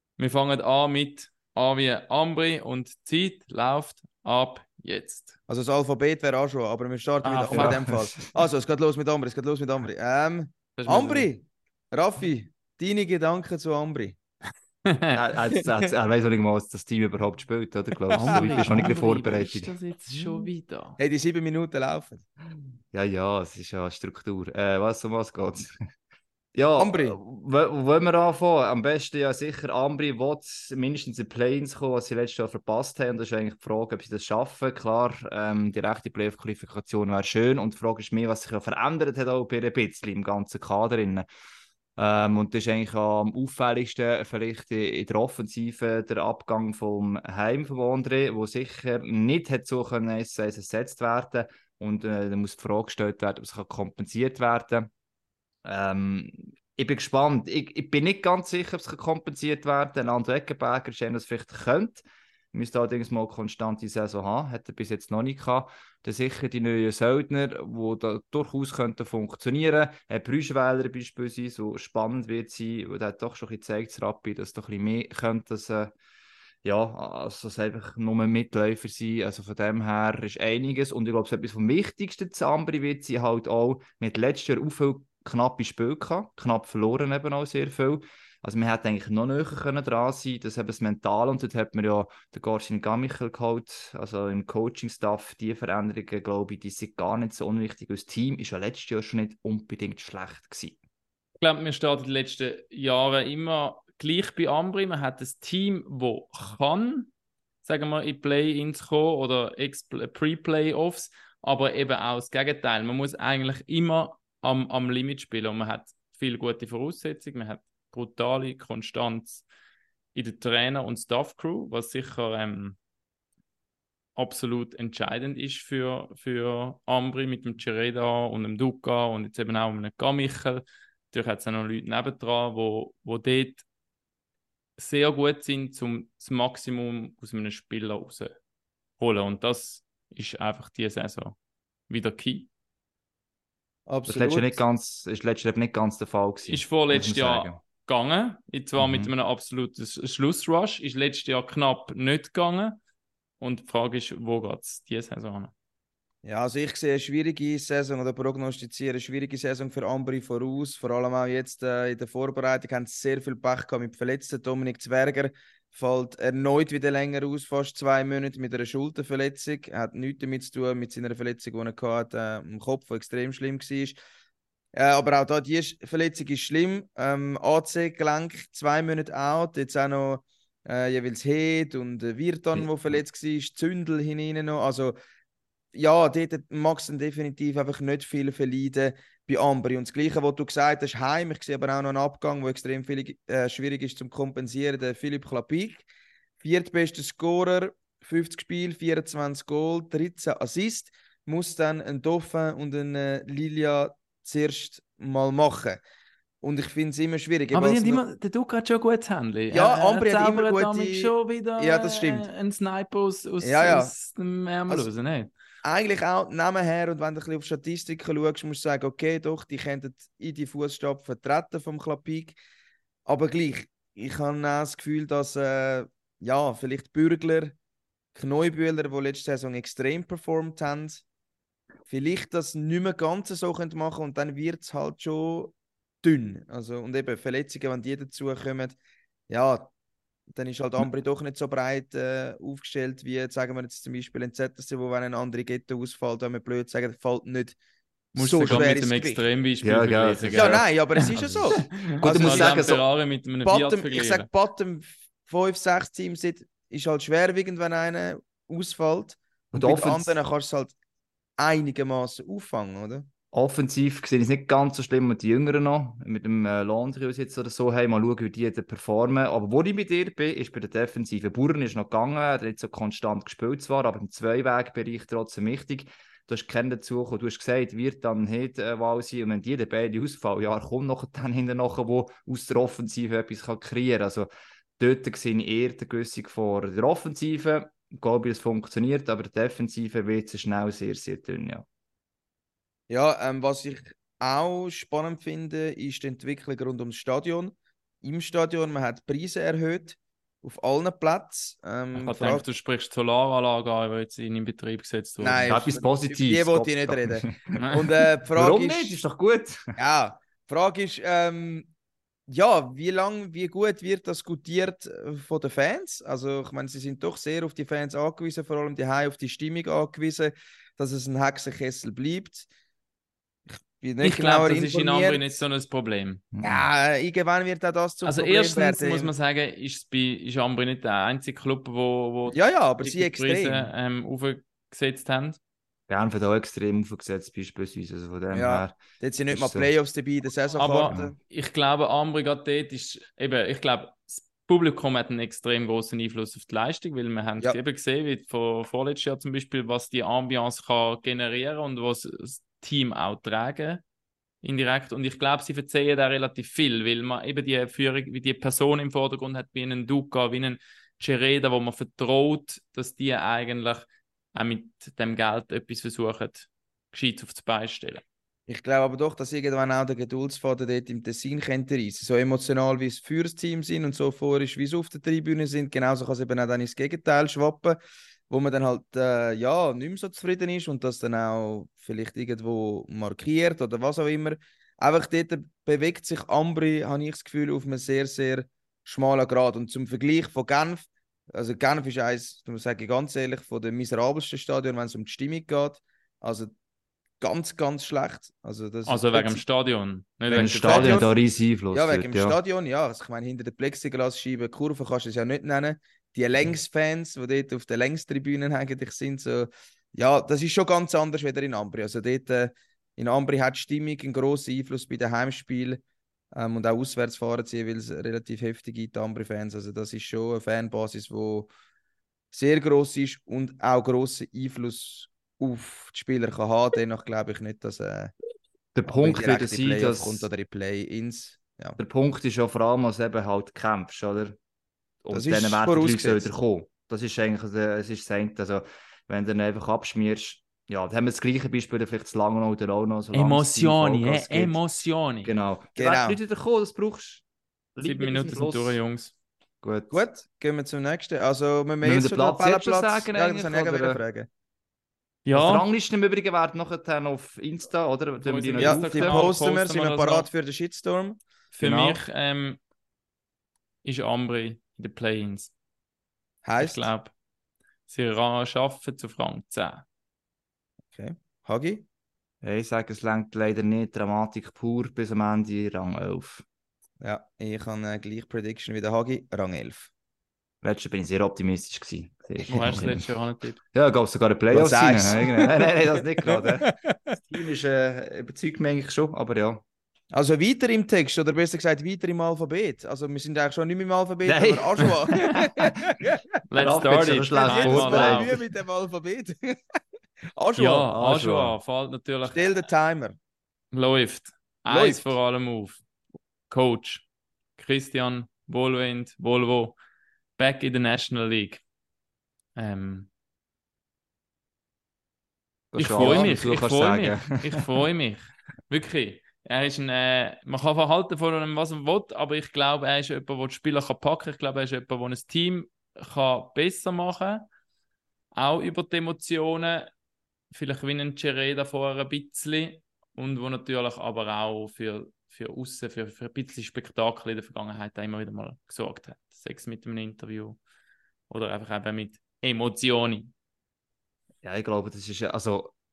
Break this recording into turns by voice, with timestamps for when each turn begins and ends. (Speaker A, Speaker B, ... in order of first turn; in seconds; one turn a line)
Speaker A: 0.2-5.4
Speaker B: 5.5-14.2
Speaker A: 7.2-7.8
Speaker C: 7.5-8.3
Speaker A: 10.8-11.3
Speaker A: 14.8-15.2
Speaker C: 15.1-19.7
Speaker B: 18.1-18.9
Speaker A: 18.1-21.0
Speaker B: 20.2-22.2
Speaker C: 22.9-25.7
Speaker C: 26.6-41.3
Speaker B: 26.8-27.2
Speaker C: 42.0-54.9
Speaker C: 55.6-75.9
Speaker C: 76.6-100.8
Speaker A: 101.4-107.1
Speaker A: 107.6-119.4
Speaker A: 120.2-122.8
Speaker A: 124.2-133.7
Speaker A: 134.8-138.3
Speaker A: 139.0-141.4
Speaker A: 141.9-142.5
Speaker B: 143.9-144.6
Speaker C: 144.1-147.6
Speaker A: 146.5-152.8
Speaker C: 148.8-149.1
Speaker A: 153.4-155.5
Speaker B: 156.2-174.0
Speaker B: 174.7-184.9
Speaker C: 182.5-183.0
Speaker B: 185.7-195.8
Speaker B: 196.4-205.8
Speaker B: 206.4-208.0
Speaker A: 207.5-215.3
Speaker B: 209.5-212.3
Speaker B: 213.4-213.9
Speaker B: 215.6-222.4
Speaker B: 223.1-227.5
Speaker B: 228.2-231.0
Speaker B: 231.9-238.8
Speaker B: 239.3-239.7
Speaker B: 240.3-247.6
Speaker B: 248.1-249.3
Speaker A: 248.2-254.3
Speaker C: 249.6-252.8
Speaker B: 250.3-252.7
Speaker B: 253.4-260.8
Speaker C: 259.5-260.2
Speaker B: 261.4-263.1
Speaker C: 263.3-291.7
Speaker B: 292.9-302.4
Speaker A: 301.9-305.6
Speaker B: 305.2-309.0
Speaker C: 305.5-307.7
Speaker A: 307.6-307.9
Speaker C: 308.3-309.7
Speaker B: 309.8-311.7
Speaker B: 312.3-322.5
Speaker B: 323.8-325.4
Speaker A: 324.0-326.2
Speaker C: 326.3-326.7
Speaker B: 326.4-329.1
Speaker A: 328.1-335.4
Speaker B: 332.3-333.7
Speaker C: 335.9-338.8
Speaker B: 338.3-341.1
Speaker C: 339.3-339.7
Speaker A: 340.6-353.8
Speaker A: 354.4-368.0
Speaker B: 368.5-377.8
Speaker B: 378.3-396.5
Speaker B: 397.2-399.4
Speaker A: 398.9-401.1
Speaker C: 400.3-402.4
Speaker B: 400.4-401.1
Speaker B: 401.7-415.8
Speaker B: 416.3-421.5
Speaker B: 422.3-428.1
Speaker C: 428.8-430.3
Speaker B: 428.9-431.8
Speaker C: 431.8-434.4
Speaker C: 435.0-447.2
Speaker B: 435.1-436.3
Speaker A: 443.1-445.3
Speaker B: 445.8-446.2
Speaker C: 447.8-448.8
Speaker A: 447.8-449.1
Speaker C: 449.6-450.1
Speaker B: 449.9-454.3
Speaker C: 451.8-454.0
Speaker A: 455.3-455.7
Speaker C: 455.3-459.3
Speaker A: 458.2-460.3
Speaker B: 458.6-461.2
Speaker A: 461.5-462.6
Speaker C: 461.6-462.0
Speaker A: 463.8-465.5
Speaker B: 466.4-466.9
Speaker A: 466.6-467.1
Speaker A: 467.9-469.8
Speaker B: 470.9-471.9
Speaker C: 472.4-476.4
Speaker B: 477.0-479.9
Speaker C: 480.6-483.1
Speaker A: 482.5-483.6
Speaker C: 483.7-489.6
Speaker B: 484.5-487.1
Speaker B: 490.1-496.2
Speaker C: 494.2-496.0
Speaker A: 496.5-498.3
Speaker C: 496.6-498.4
Speaker B: 497.3-500.9
Speaker A: 500.6-502.5
Speaker C: 500.9-501.6
Speaker B: 502.3-503.2
Speaker A: 503.7-505.8
Speaker B: 504.7-505.1
Speaker A: 506.5-507.1
Speaker A: 507.6-509.8
Speaker A: 510.4-511.6
Speaker A: 512.6-513.1
Speaker C: 515.7-517.6
Speaker A: 515.8-527.5
Speaker B: 516.0-516.4
Speaker A: 528.4-529.9
Speaker A: 530.5-540.6
Speaker A: 541.3-543.3
Speaker C: 544.4-545.7